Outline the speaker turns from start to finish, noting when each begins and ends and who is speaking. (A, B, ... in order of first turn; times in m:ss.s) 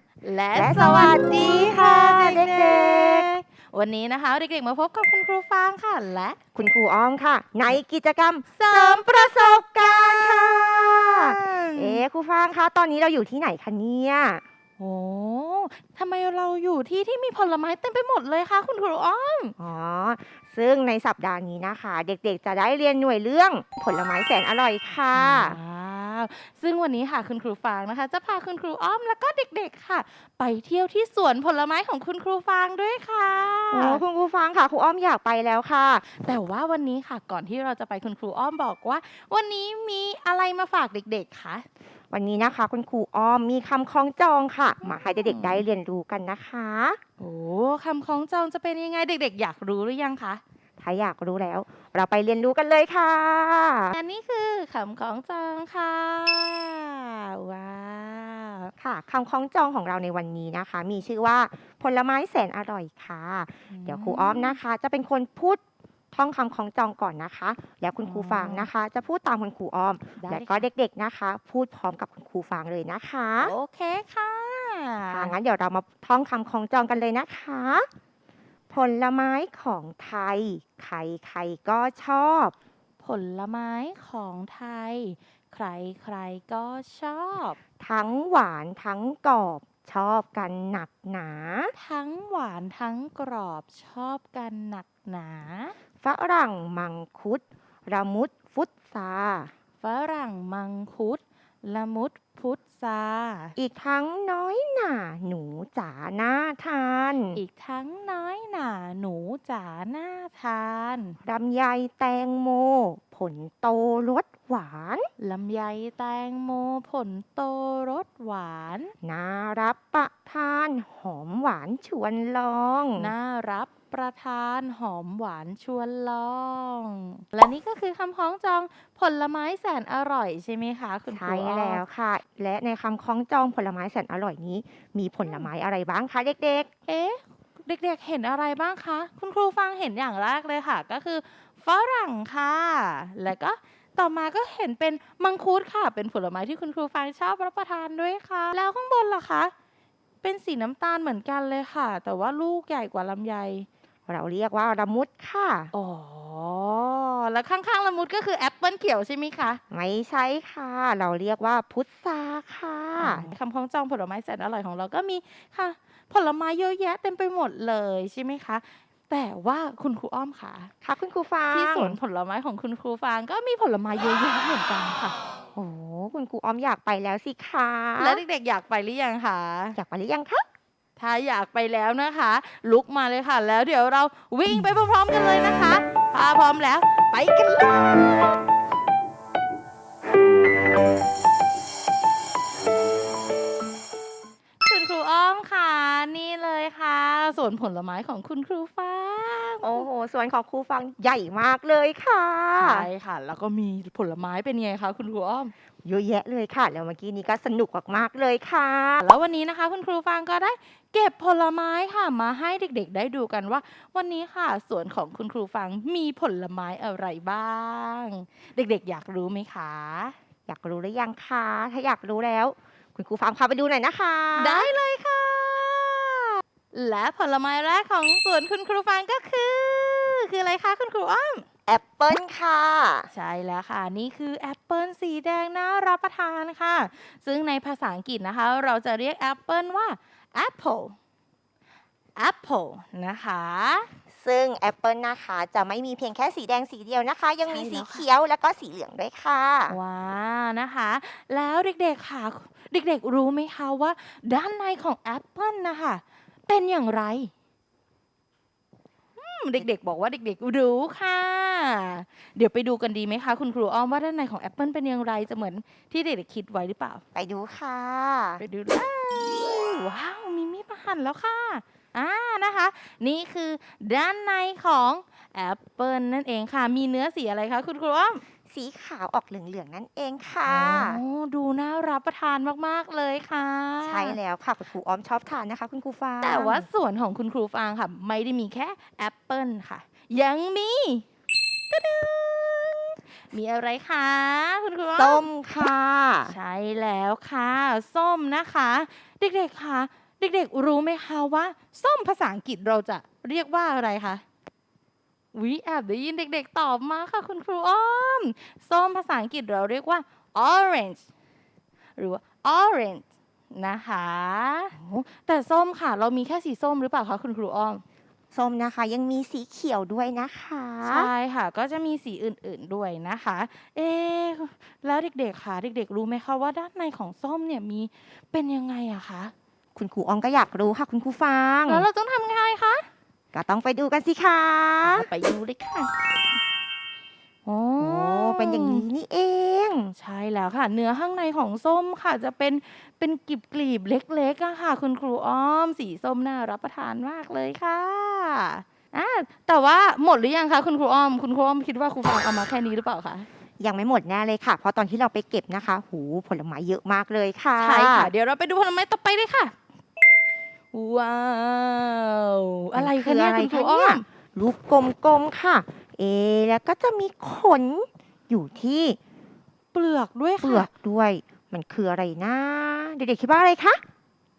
0:00.2-0:06.4 A
0:00.5-0:03.3 B
0:06.6-0:14.4 B
0:08.5-0:12.0 A
0:14.8-0:19.5 A
0:19.6-0:25.6 B
0:25.1-0:34.0 A
0:33.7-0:36.0 B
0:36.1-0:41.6 A
0:42.1-0:47.0 B
0:44.8-0:45.6 A
0:47.2-0:50.4 A
0:50.8-0:54.0 B
0:53.9-0:58.7 A
0:58.8-1:05.6 B
1:03.7-1:04.6 A
1:06.1-1:13.5 B
1:08.0-1:08.7 A
1:10.2-1:10.7 A
1:13.4-1:15.4 A
1:15.1-1:17.9 B
1:18.7-1:22.5 B
1:23.0-1:27.6 A
1:27.8-1:31.7 B
1:31.8-1:35.7 A
1:36.0-1:39.5 B
1:39.8-1:43.5 A
1:43.6-1:47.4 B
1:47.3-1:51.2 A
1:51.2-1:55.1 B
1:55.2-1:58.9 A
1:59.0-2:03.1 B
2:03.0-2:11.8 A
2:11.1-2:16.7 B
2:16.9-2:29.5 A
2:30.2-2:33.7 A
2:34.1-2:35.7 B
2:35.7-2:39.6 A
2:39.7-2:43.3 B
2:43.0-2:50.7 A
2:50.8-2:52.0 B
2:51.5-2:55.2 A
2:55.6-2:58.2 B
2:58.0-2:59.8 A
2:59.8-3:00.5 B
3:01.0-3:08.4 A
3:14.6-3:19.9 A
3:19.6-3:22.9 B
3:22.6-3:25.5 A
3:25.8-3:29.1 B
3:29.0-3:40.2 A
3:40.5-3:44.7 B
3:44.4-3:51.5 A
3:51.7-3:53.1 B
3:53.1-4:01.0 A
4:02.2-4:03.9 A
4:04.1-4:09.8 B
4:07.4-4:08.0 A
4:09.7-4:17.3 A
4:19.2-4:27.0 A
4:27.2-4:28.4 B
4:28.4-4:38.2 A
4:38.5-4:41.0 B
4:40.5-4:44.2 A
4:43.8-4:46.7 B
4:46.2-4:51.0 A
4:51.7-4:55.2 A
4:55.0-4:56.4 B
4:56.3-5:04.2 A
5:05.3-5:11.0 A
5:12.0-5:17.8 A
5:18.3-5:21.1 B
5:20.9-5:29.3 A
5:29.8-5:31.9 B
5:31.7-5:32.9 A
5:33.3-5:35.1 B
5:34.8-5:35.9 A
5:37.4-5:38.9 A
5:37.8-5:39.9 B
5:40.0-5:53.3 A
5:53.6-5:58.1 B
5:57.6-5:59.5 A
6:00.7-6:04.0 A
6:02.8-6:09.0 B
6:09.7-6:10.7 A
6:10.4-6:13.8 B